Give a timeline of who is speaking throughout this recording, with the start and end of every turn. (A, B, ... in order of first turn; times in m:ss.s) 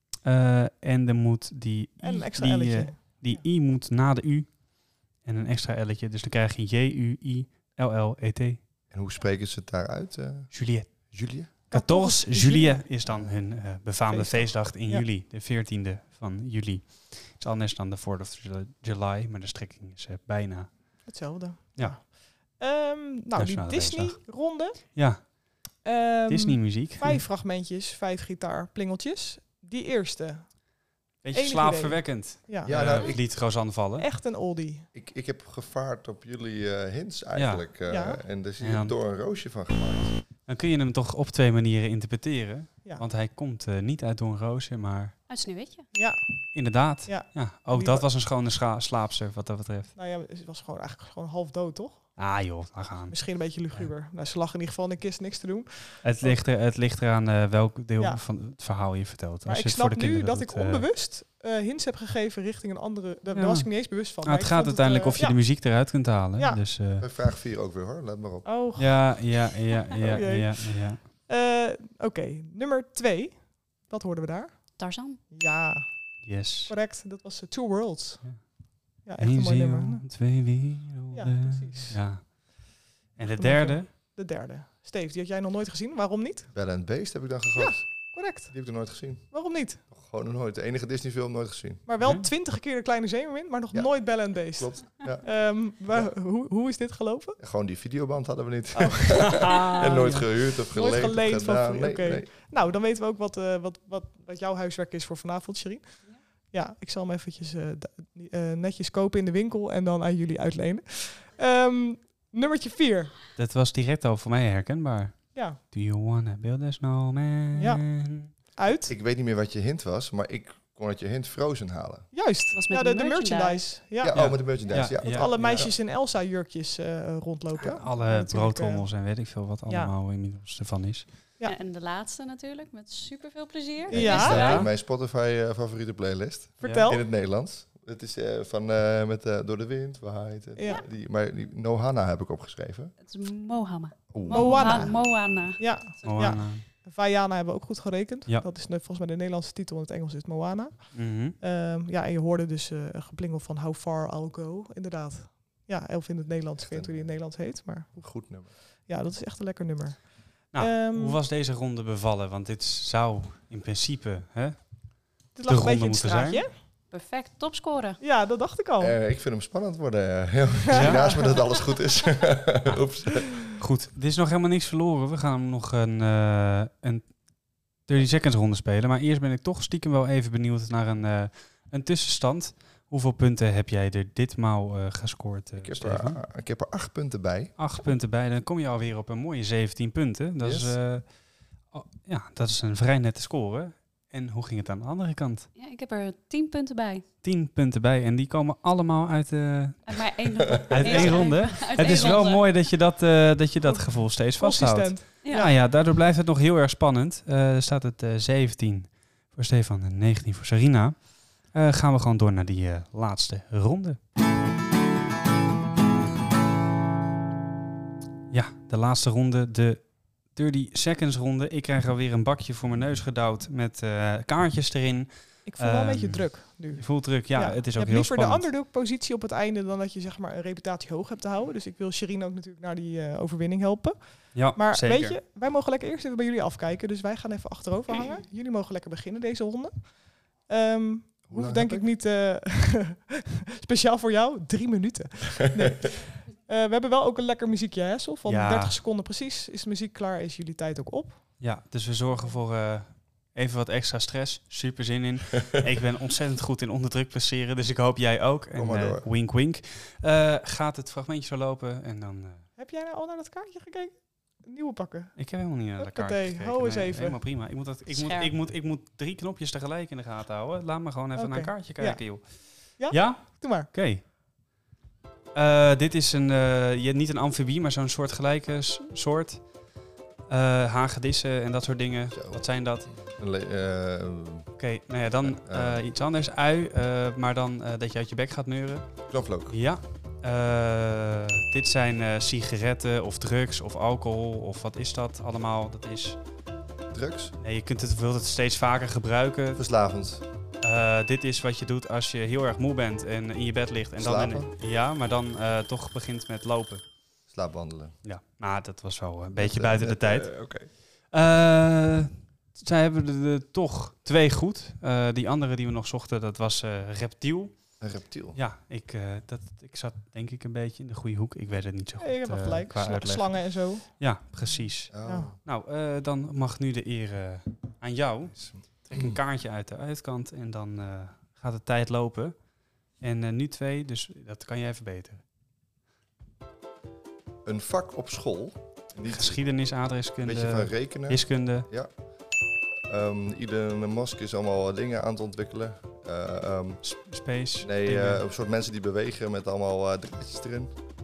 0:00.2-0:08.6 A
0:02.0-0:03.4 B
0:08.9-0:11.5 C
0:10.5-0:20.7 A
0:11.7-0:12.9 B
0:13.0-0:13.3 C
0:14.1-0:15.0 B
0:21.1-0:25.0 B
0:23.4-0:24.3 A
0:24.9-0:25.2 A
0:25.8-0:30.6 B
0:26.3-0:27.2 A
0:31.2-0:34.1 A
0:31.3-0:34.9 B
0:32.6-0:33.2 C
0:34.9-0:40.1 C
0:37.4-0:37.6 A
0:37.9-0:38.2 B
0:38.6-0:38.9 A
0:40.4-0:45.1 A
0:45.3-0:45.9 D
0:45.9-0:46.2 B
0:46.5-0:49.9 A
0:47.0-0:48.0 B
0:50.0-0:52.1 B
0:52.2-0:53.2 A
0:53.1-0:56.4 B
0:56.0-1:00.8 A
0:59.4-1:05.4 B
1:03.3-1:07.1 A
1:07.0-1:08.4 C
1:08.4-1:09.1 B
1:08.8-1:11.0 A
1:10.0-1:14.8 B
1:14.8-1:15.2 D
1:15.3-1:15.9 B
1:16.2-1:16.7 A
1:16.7-1:18.3 B
1:18.9-1:23.9 A
1:19.0-1:20.0 B
1:21.1-1:22.0 B
1:23.4-1:26.5 B
1:26.5-1:29.3 C
1:27.6-1:28.8 B
1:29.3-1:29.8 B
1:29.8-1:31.8 C
1:31.9-1:37.4 B
1:32.0-1:32.3 A
1:33.7-1:36.1 C
1:37.4-1:42.3 C
1:38.8-1:39.3 B
1:39.3-1:40.3 A
1:40.7-1:53.2 B
1:53.3-1:58.3 A
1:55.3-1:55.6 B
1:57.5-1:57.8 B
1:58.5-1:58.9 B
1:58.9-2:02.1 C
2:02.1-2:08.9 B
2:02.5-2:03.7 D
2:04.0-2:05.7 C
2:04.1-2:05.7 A
2:07.7-2:11.0 A
2:09.7-2:09.9 B
2:11.4-2:14.7 D
2:13.9-2:22.9 C
2:13.9-2:14.4 B
2:14.2-2:14.7 A
2:16.6-2:17.0 B
2:16.6-2:16.9 A
2:23.0-2:26.4 D
2:24.1-2:25.0 C
2:24.3-2:38.0 B
2:26.0-2:26.6 A
2:30.9-2:31.4 A
2:36.6-2:37.1 C
2:37.9-2:38.5 C
2:38.9-2:41.2 B
2:40.5-2:44.6 A
2:45.3-2:46.5 B
2:45.5-2:46.4 A
2:46.9-2:48.0 D
2:48.0-2:49.0 B
2:48.8-2:53.4 C
2:50.7-2:51.1 A
2:50.7-2:51.2 B
2:53.6-3:06.2 A
3:05.6-3:07.5 C
3:07.6-3:11.1 A
3:10.4-3:10.8 C
3:11.6-3:15.5 A
3:15.6-3:17.0 D
3:17.2-3:20.0 A
3:19.9-3:22.7 D
3:20.7-3:34.0 A
3:20.7-3:21.1 C
3:20.9-3:22.2 B
3:24.4-3:25.5 B
3:38.3-3:48.5 A
3:45.4-4:11.2 B
3:54.3-3:55.2 A
4:01.3-4:01.8 C
4:08.2-4:08.8 A
4:11.4-4:22.5 A
4:18.6-4:19.1 C
4:22.6-4:25.2 B
4:25.2-4:34.0 A
4:25.8-4:27.2 B
4:27.9-4:28.3 D
4:31.2-4:33.7 B
4:35.3-4:39.5 A
4:40.3-4:42.9 A
4:42.1-4:44.5 C
4:44.6-4:48.9 A
4:45.2-4:45.8 C
4:49.1-4:49.6 C
4:49.5-4:56.2 A
4:56.9-4:57.3 C
4:57.4-4:59.6 A
4:59.6-5:00.2 C
5:00.6-5:06.8 A
5:04.0-5:04.5 C
5:07.3-5:08.0 C
5:08.0-5:10.3 A
5:09.4-5:10.7 C
5:11.1-5:17.7 A
5:17.8-5:18.4 C
5:18.3-5:32.4 A
5:22.0-5:24.0 B
5:24.9-5:25.4 C
5:25.0-5:25.3 B
5:28.4-5:29.2 C
5:33.0-5:35.2 A
5:37.4-5:39.5 C
5:39.0-5:41.7 A
5:40.2-5:41.9 C
5:42.8-5:46.8 C
5:46.8-5:48.2 A
5:47.6-5:50.7 C